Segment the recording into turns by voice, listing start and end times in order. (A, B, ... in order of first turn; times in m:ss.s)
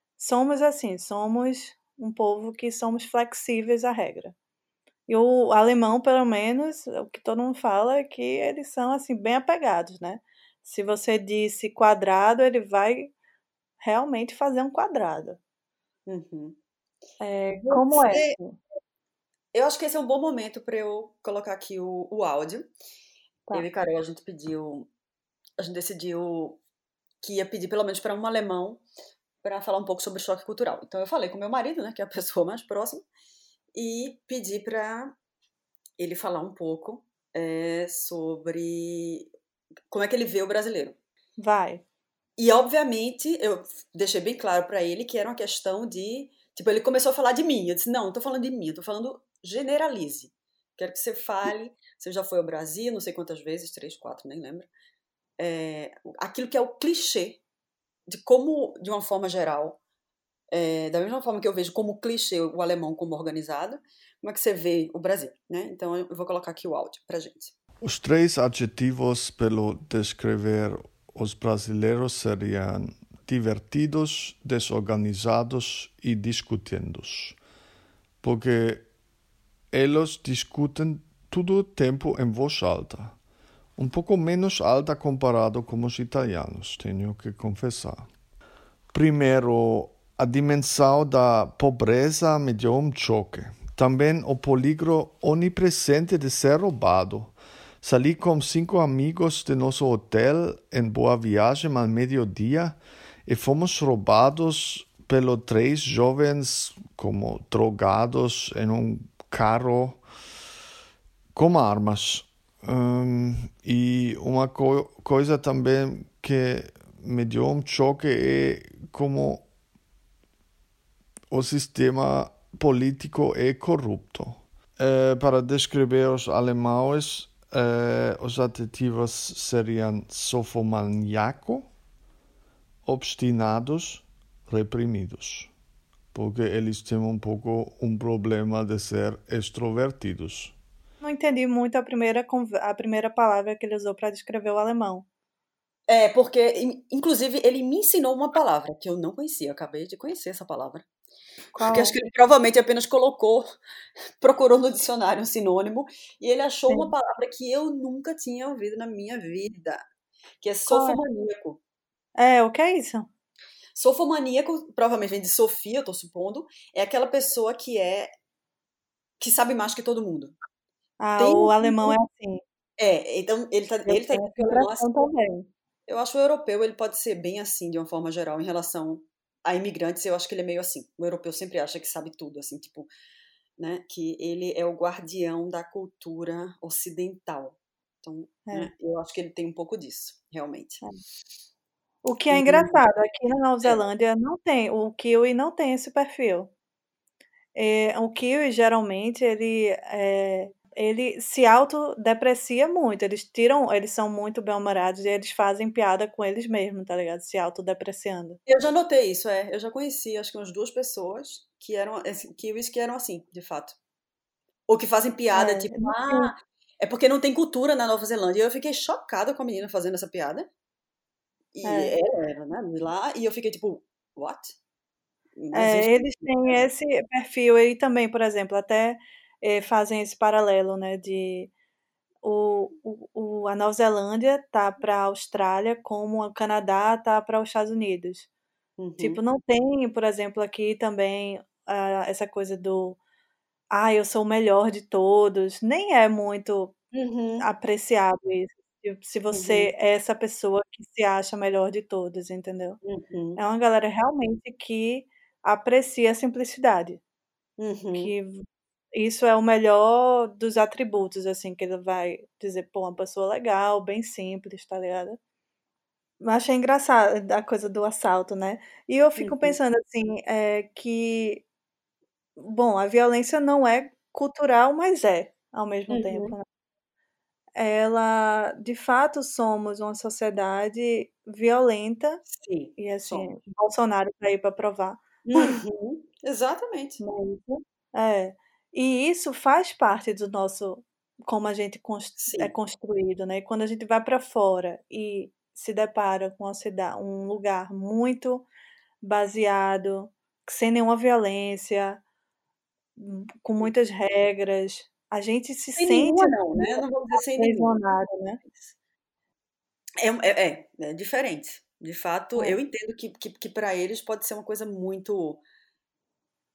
0:00.2-0:04.3 A
0:05.1-0:13.1 A
0:13.8-0:15.4 A
0:16.1-0:16.6 B
0:17.2-0:18.6 A
0:17.7-0:18.4 B
0:19.5-0:22.7 B
0:23.5-0:24.9 B
0:25.6-0:26.6 B
0:27.2-0:28.8 B
0:29.4-0:33.0 B
0:33.8-0:35.1 B
0:36.0-0:39.3 B
0:39.9-0:41.0 B
0:41.4-0:41.8 A
0:42.4-0:54.7 B
0:55.4-0:57.4 B
0:58.1-0:59.8 B
1:00.5-1:07.5 B
1:07.8-1:17.4 C
1:18.2-1:18.9 C
1:19.7-1:23.2 C
1:23.8-1:28.1 C
1:28.9-1:50.0 C
1:51.4-1:59.5 C
2:01.3-2:11.6 C
2:12.8-2:15.5 C
2:16.1-2:20.6 C
2:21.0-2:25.1 A
2:25.9-2:30.8 B
2:31.6-2:32.0 A
2:31.6-2:33.5 B
2:34.2-2:39.8 B
2:40.4-2:41.6 B
2:40.7-2:41.0 A
2:42.2-2:43.1 A
2:43.7-2:48.1 B
2:49.2-2:50.4 B
2:51.0-2:52.4 A
2:51.2-2:52.0 B
2:52.8-2:54.9 B
2:53.9-2:55.5 A
2:55.9-3:02.9 B
3:03.6-3:10.8 B
3:12.0-3:16.5 A
3:12.3-3:12.8 B
3:17.6-3:28.4 A
3:28.5-3:33.8 B
3:34.7-3:40.5 B
3:35.3-3:36.3 A
3:41.5-3:44.5 B
3:41.6-3:42.0 A
3:45.4-3:46.6 B
3:45.5-3:51.5 A
3:52.2-3:58.3 A
3:58.8-3:59.2 B
3:59.0-4:03.0 A
4:03.7-4:06.8 A
4:06.9-4:07.5 B
4:07.4-4:12.8 A
4:09.3-4:09.7 B
4:12.8-4:13.4 B
4:13.4-4:17.0 A
4:17.6-4:18.1 B
4:17.9-4:25.2 A
4:26.2-4:31.4 A
4:29.2-4:29.6 B
4:32.4-4:36.4 A
4:35.9-4:36.3 B
4:37.6-4:42.2 A
4:42.3-4:43.3 B
4:42.8-4:45.6 A
4:45.2-4:47.0 B
4:47.0-4:58.5 A
4:52.2-4:52.5 B
4:59.0-5:02.0 A
5:03.0-5:08.4 A
5:05.8-5:07.8 B
5:08.4-5:08.7 B
5:10.0-5:15.4 B